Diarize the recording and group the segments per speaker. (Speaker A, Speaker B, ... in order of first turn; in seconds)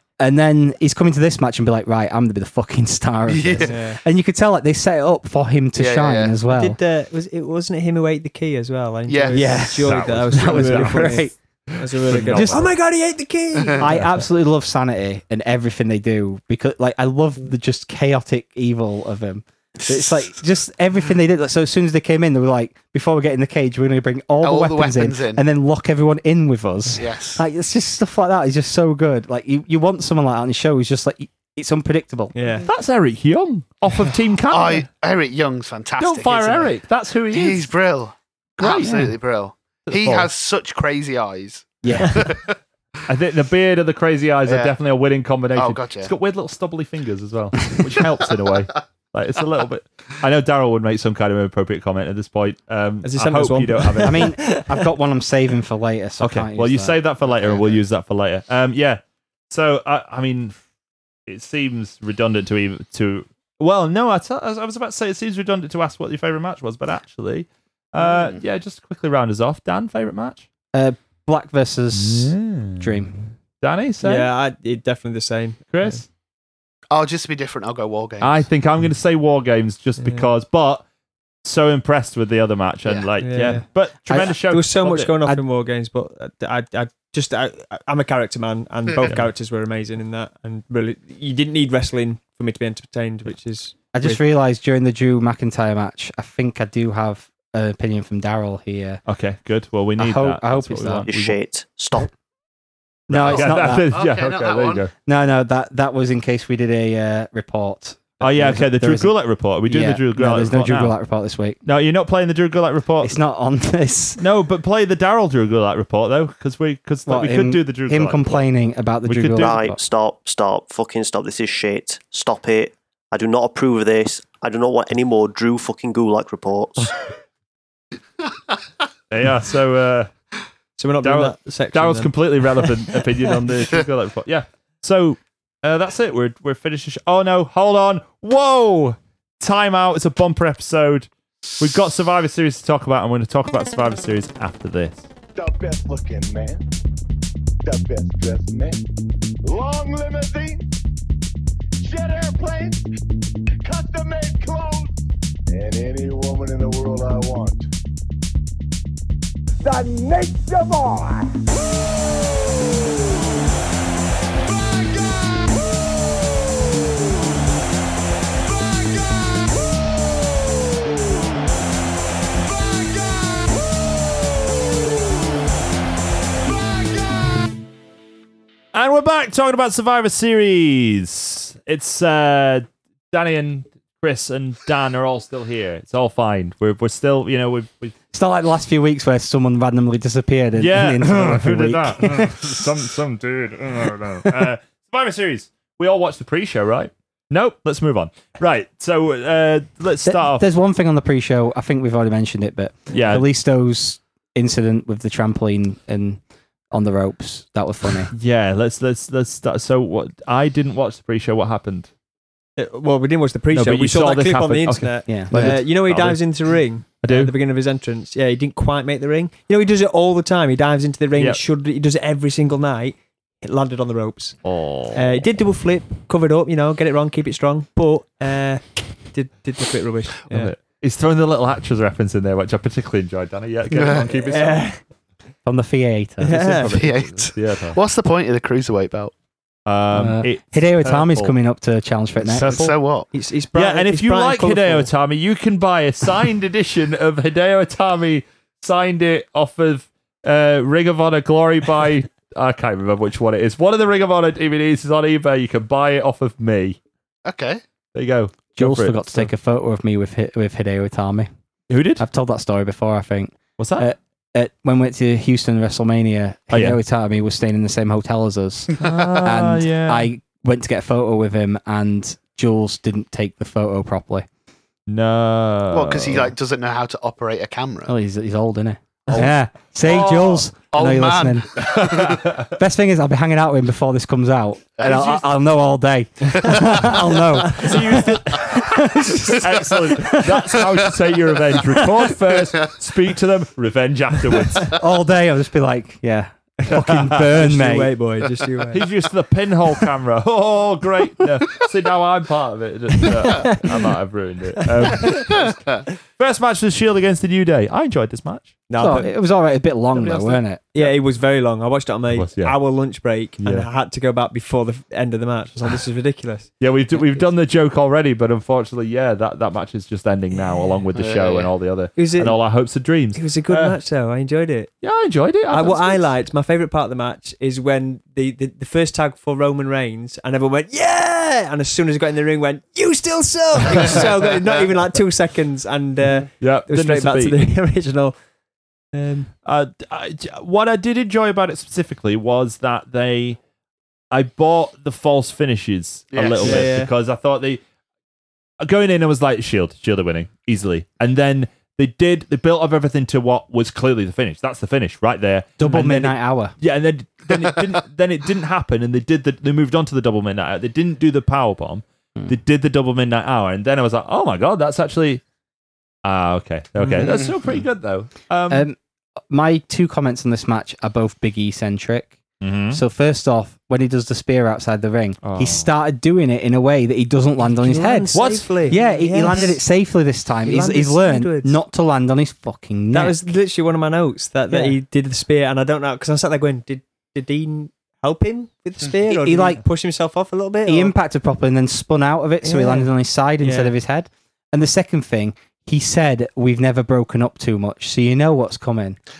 Speaker A: 0.2-6.8, 9.3-11.3, 12.1-12.7, 13.8-32.3, 41.8-42.3, 54.0-57.0, 70.7-73.2, 84.1-84.5, 93.9-99.0, 100.0-101.0, 103.1-104.0, 105.0-109.1, 109.7-111.6, 113.0-114.2, 117.0-119.8, 188.1-192.6, 200.0-208.1, 215.1-215.6, 235.4-236.8, 239.9-242.5, 258.6-261.3, 262.0-274.2, 277.9-281.8, 282.4-290.7, 294.7-297.9, 308.8-310.6, 355.6-356.5, 368.5-368.8, 369.3-372.2, 372.7-383.1, 384.5-384.8, 389.1-389.6, 390.6-399.0
Speaker B: 3.3-3.7, 5.8-6.3, 9.1-9.6, 19.8-20.3, 24.4-25.4, 27.0-27.4, 34.5-36.8, 37.3-42.6, 44.5-44.7, 45.5-46.1, 57.2-57.8, 68.0-68.4, 76.9-78.5, 103.2-104.8, 233.7-234.3, 236.8-239.1, 242.3-243.1, 257.2-257.6, 275.7-277.9, 279.8-282.3, 284.8-285.2, 286.5-287.0, 305.3-305.8, 320.9-321.5, 346.1-346.7, 367.0-367.4
Speaker C: 3.6-4.0, 6.5-13.9, 32.3-32.7, 53.0-54.8, 74.0-76.0, 80.0-80.3, 83.2-83.6, 84.4-94.2, 130.8-132.7, 212.6-224.4, 224.9-230.5, 234.3-234.8, 236.2-236.7, 242.5-244.9, 297.3-298.8, 303.3-303.6, 304.6-305.2, 308.7-309.1, 310.7-316.5, 321.9-322.4, 323.1-324.7, 325.5-338.1, 338.9-339.3, 346.4-346.9, 377.5-379.6, 380.4-381.6, 382.9-390.9, 392.4-393.8
Speaker D: 9.8-12.7, 32.6-34.9, 36.0-37.7, 38.6-39.1, 39.9-40.3, 43.1-54.3, 56.2-60.5, 61.3-70.4, 71.9-74.3, 75.7-76.0, 78.2-80.8, 81.4-85.1, 99.0-101.3, 103.1-104.9, 108.2-111.0, 111.6-113.2, 114.2-118.4, 119.0-119.6, 129.1-130.1, 131.0-145.1, 178.7-187.9, 190.6-200.4, 202.9-203.3, 208.1-211.9, 213.5-216.4, 217.0-217.3, 224.4-225.2, 230.3-234.7, 236.7-237.8, 239.7-241.3, 242.3-242.7, 243.5-256.8, 257.9-259.3, 261.7-262.0, 263.6-263.9, 266.5-266.8, 268.8-270.1, 274.9-276.3, 279.8-280.4, 281.6-282.4, 284.8-285.1, 287.4-294.7, 296.7-297.3, 298.7-305.6, 306.1-308.5, 309.9-310.9, 312.1-312.6, 313.4-313.7, 316.6-323.8, 324.8-326.1, 336.4-337.4, 339.4-343.4, 344.1-347.6, 348.6-365.2, 366.0-368.7, 372.4-372.8, 375.2-375.7, 378.1-378.7
Speaker E: 101.0-102.1, 119.3-126.9
Speaker F: 145.3-146.7, 147.6-148.8, 149.4-150.7, 151.8-152.9, 153.6-155.0, 155.5-157.7, 159.6-161.3